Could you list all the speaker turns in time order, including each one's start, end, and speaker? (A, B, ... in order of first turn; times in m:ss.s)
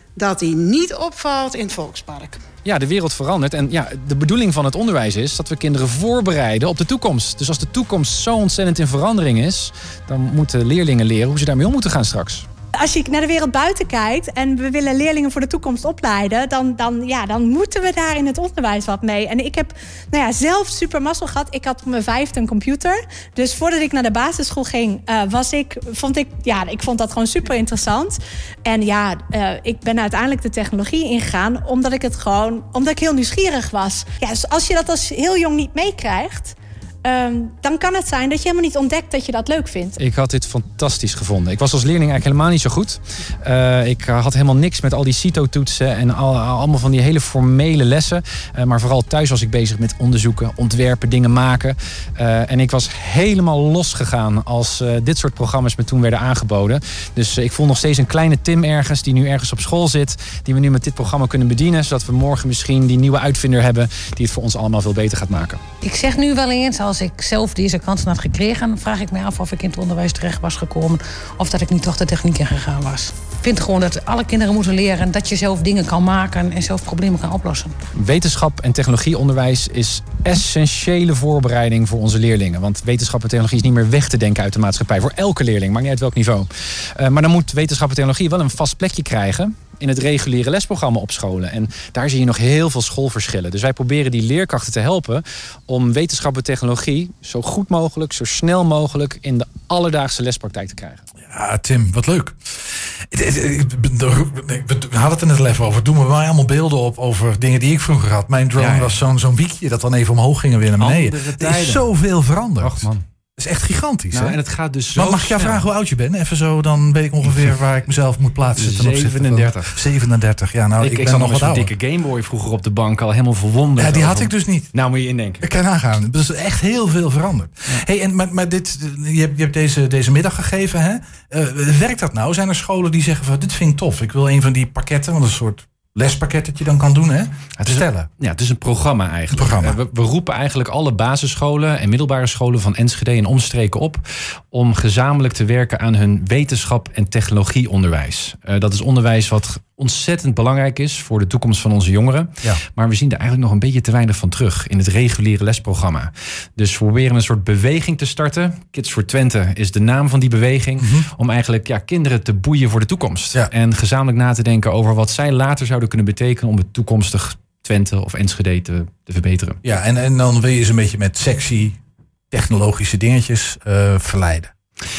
0:00.2-0:02.4 A
0:02.6-0:12.4 B
0:12.8-0:40.0 C
0:40.0-1:05.6 B
1:05.8-1:17.7 D
1:17.9-1:41.0 B
1:41.3-1:54.4 E
1:48.6-1:49.0 B
1:50.8-1:51.9 B
1:52.6-1:53.0 B
1:54.1-1:55.7 B
1:54.9-2:01.7 E
1:58.6-1:59.9 B
2:00.8-2:05.4 B
2:03.8-2:04.7 E
2:05.4-2:18.1 E
2:17.6-2:49.6 B
2:19.3-2:19.8 E
2:40.8-2:41.1 E
2:49.6-2:51.8 E
2:52.3-2:54.5 E